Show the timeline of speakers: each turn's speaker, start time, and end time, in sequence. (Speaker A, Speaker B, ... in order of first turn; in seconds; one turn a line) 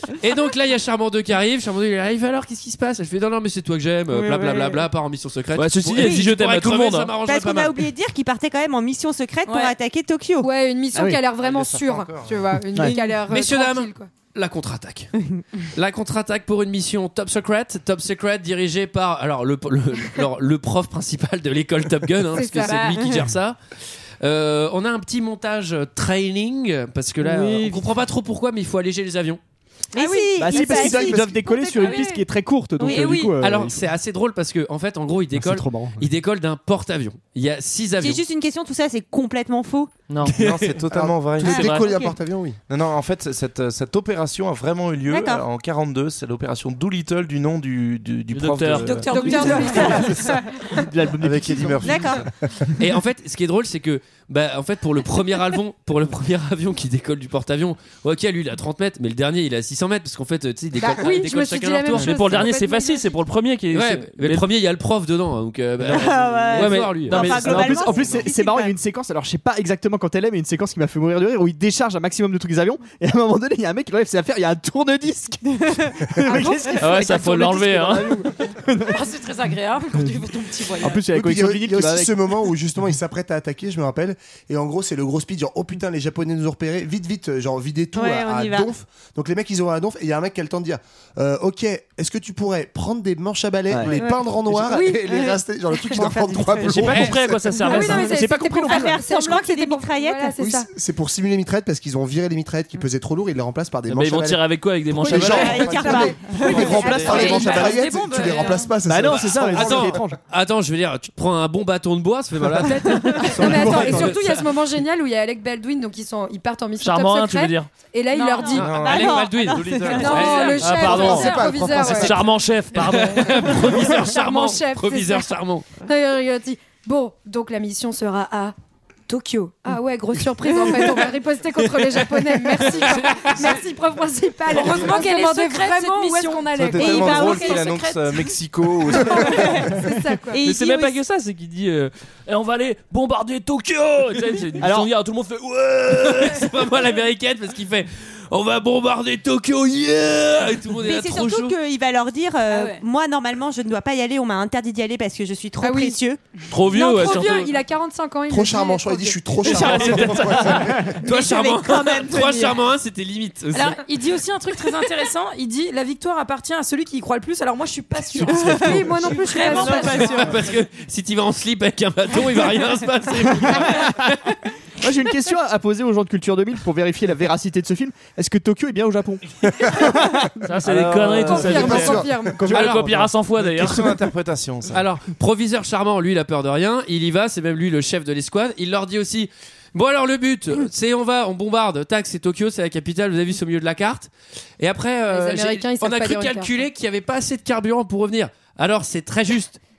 Speaker A: 0.1-7.8
Speaker B: 4.1-4.8
Speaker C: 5.6-7.1
Speaker B: 7.2-10.5
Speaker D: 9.5-9.8
Speaker E: 10.4-14.1
Speaker F: 10.9-11.2
Speaker G: 11.4-12.5
Speaker F: 12.7-13.2
Speaker A: 13.2-15.1
Speaker A: 15.7-23.6
Speaker E: 22.3-22.9
Speaker D: 22.5-23.1
Speaker A: 24.2-29.4
Speaker F: 27.2-27.9
Speaker B: 29.9-32.1
Speaker D: 30.0-31.2
Speaker F: 30.4-33.9
Speaker D: 31.7-32.2
Speaker B: 32.8-33.2
Speaker D: 32.8-33.3
Speaker A: 33.2-38.2
Speaker F: 35.3-36.1
Speaker B: 38.0-39.9
Speaker C: 40.1-40.4
Speaker A: 40.2-40.7
Speaker G: 40.3-41.9
Speaker H: 40.9-42.6
Speaker C: 41.4-42.1
Speaker G: 42.7-49.6
Speaker B: 45.1-45.5
Speaker C: 48.3-49.2
Speaker D: 48.8-50.6
Speaker E: 49.1-50.9
Speaker B: 49.3-50.3
Speaker F: 49.9-52.3
Speaker G: 51.2-52.3
Speaker B: 51.8-52.3
Speaker A: 52.8-62.4
Speaker E: 60.8-63.1
Speaker C: 61.9-64.5
Speaker A: 63.7-67.8
Speaker F: 65.8-79.1
Speaker B: 65.9-68.8
Speaker C: 66.5-67.7
Speaker D: 76.4-76.8
Speaker C: 76.8-78.2
Speaker D: 78.9-81.1
Speaker F: 80.8-82.2
Speaker H: 81.1-97.5
Speaker B: 88.0-88.7
Speaker F: 93.7-94.0
Speaker B: 93.9-100.4
Speaker E: 94.6-95.3
Speaker C: 96.6-99.0
Speaker E: 97.6-100.7
Speaker H: 100.4-104.4
Speaker C: 103.9-106.0
Speaker H: 104.9-110.0
Speaker F: 105.1-107.6
Speaker B: 105.1-107.8
Speaker G: 105.2-107.4
Speaker E: 105.9-106.2
Speaker D: 106.5-108.8
Speaker F: 108.8-110.2
Speaker A: 109.2-114.4
Speaker F: 112.5-114.3
Speaker E: 112.7-118.9
Speaker C: 116.8-117.7
Speaker D: 118.1-118.7
Speaker B: 118.4-120.6
Speaker A: 118.5-120.7
Speaker G: 118.5-120.5
Speaker E: 119.9-122.2
Speaker D: 120.0-121.9
Speaker C: 120.6-124.0
Speaker H: 120.8-122.2
Speaker A: 122.7-125.7
Speaker E: 123.7-128.6
Speaker E: 129.1-137.6
Speaker A: 132.7-133.6
Speaker C: 133.2-133.5
Speaker D: 134.5-139.6
Speaker G: 136.6-139.7
Speaker B: 136.9-137.7
Speaker E: 138.9-140.5
Speaker B: 139.1-141.0
Speaker C: 140.4-146.5
Speaker F: 144.6-144.9
Speaker A: 145.9-151.6
Speaker B: 150.8-156.2
Speaker D: 152.5-152.8
Speaker E: 155.6-156.0
Speaker C: 156.5-157.5
Speaker E: 156.7-159.3
Speaker H: 158.3-161.0
Speaker C: 159.4-160.8
Speaker A: 161.0-163.8
Speaker B: 161.0-162.6
Speaker D: 163.5-170.5
Speaker F: 168.2-169.7
Speaker E: 168.4-170.3
Speaker A: 169.5-174.4
Speaker F: 173.4-173.9
Speaker F: 174.8-180.8
Speaker H: 179.6-180.0
Speaker C: 180.4-184.0
Speaker G: 180.7-182.0
Speaker H: 181.0-182.7
Speaker E: 181.2-182.5
Speaker F: 181.4-183.2
Speaker G: 183.3-184.8
Speaker A: 184.7-199.6
Speaker E: 195.1-196.6